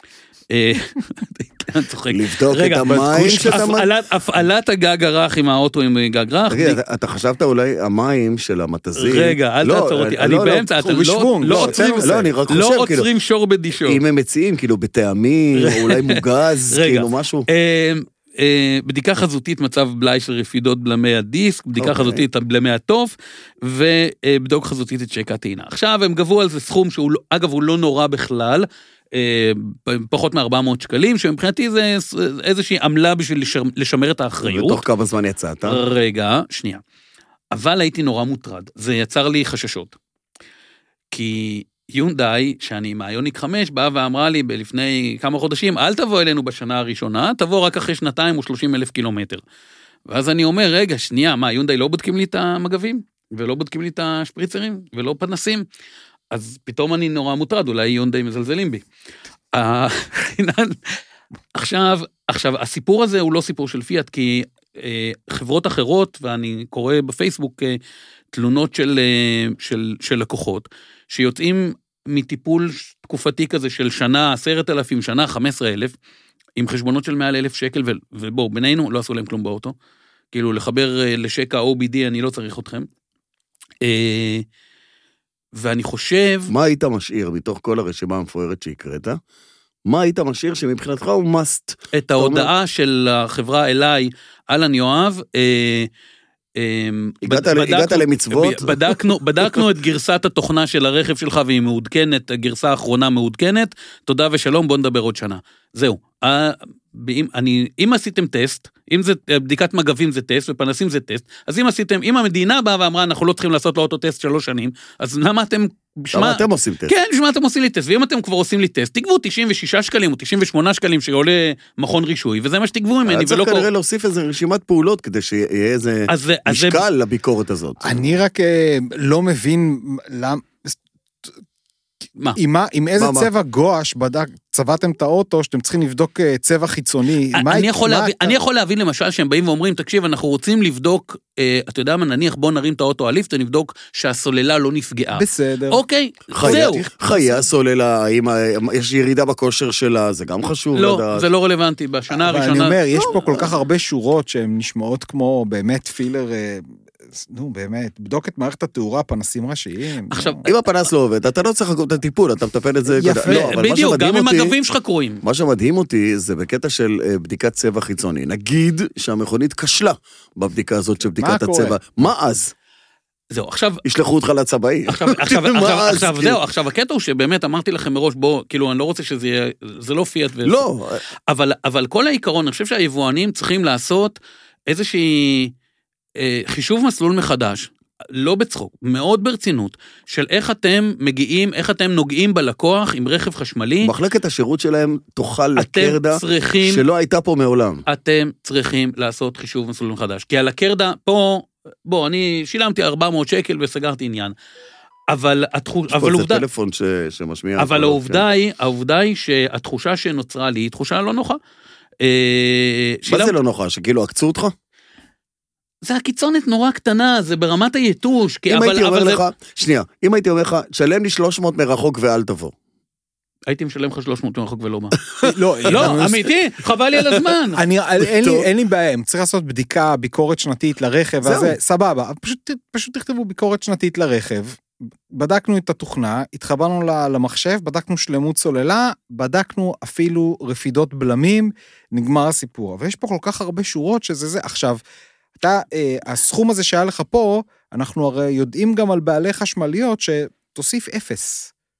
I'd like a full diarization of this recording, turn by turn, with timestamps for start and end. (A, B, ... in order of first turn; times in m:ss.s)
0:00.5-0:06.8 A
0:02.1-0:03.9 B
0:06.5-0:10.7 B
0:09.0-0:14.0 A
0:10.8-0:12.3 C
0:11.4-0:13.1 B
0:13.8-0:17.5 B
0:15.6-0:34.8 A
0:21.8-0:22.2 B
0:34.4-0:35.8 B
0:35.6-0:36.8 A
0:37.5-0:39.9 A
0:41.1-0:49.4 A
0:50.1-0:55.6 A
0:56.3-0:58.8 A
0:59.5-1:01.0 A
1:01.5-1:07.8 A
1:08.3-1:15.9 A
1:16.6-1:19.7 A
1:20.3-1:22.9 A
1:23.8-1:24.4 A
1:25.6-1:26.5 A
1:26.5-1:29.2 B
1:29.8-1:32.5 B
1:31.9-1:35.9 A
1:36.6-2:03.7 A
1:37.2-1:38.9 B
1:56.1-1:56.9 B
2:03.0-2:08.1 B
2:06.1-2:06.8 A
2:07.8-2:11.3 C
2:12.4-2:18.4 C
2:13.0-2:13.3 B
2:17.3-2:26.8 A
2:25.1-2:25.8 C
2:26.3-2:31.3 B
2:26.4-2:27.5 C
2:30.7-2:32.8 A
2:32.1-2:40.5 C
2:40.1-2:40.4 A
2:40.4-2:44.6 B
2:42.9-2:43.6 C
2:43.2-2:45.2 A
2:45.2-2:52.5 B
2:51.2-2:51.8 C
2:53.3-2:53.8 A
2:53.8-2:56.4 B
2:54.9-3:00.7 A
3:00.4-3:01.0 B
3:01.3-3:04.2 A
3:04.7-3:05.5 A
3:06.2-3:13.9 A
3:13.8-3:17.8 B
3:15.6-3:16.8 A
3:17.9-3:24.3 A
3:25.1-3:26.4 A
3:25.9-3:28.2 B
3:27.6-3:31.4 A
3:32.0-3:33.3 A
3:33.1-3:34.5 B
3:35.8-3:39.2 A
3:38.5-3:42.5 B
3:43.5-3:47.6 A
3:45.2-3:46.3 C
3:45.7-3:46.0 B
3:47.5-4:04.8 C
3:48.1-3:48.4 B
3:51.2-3:51.6 B
4:05.4-4:11.5 C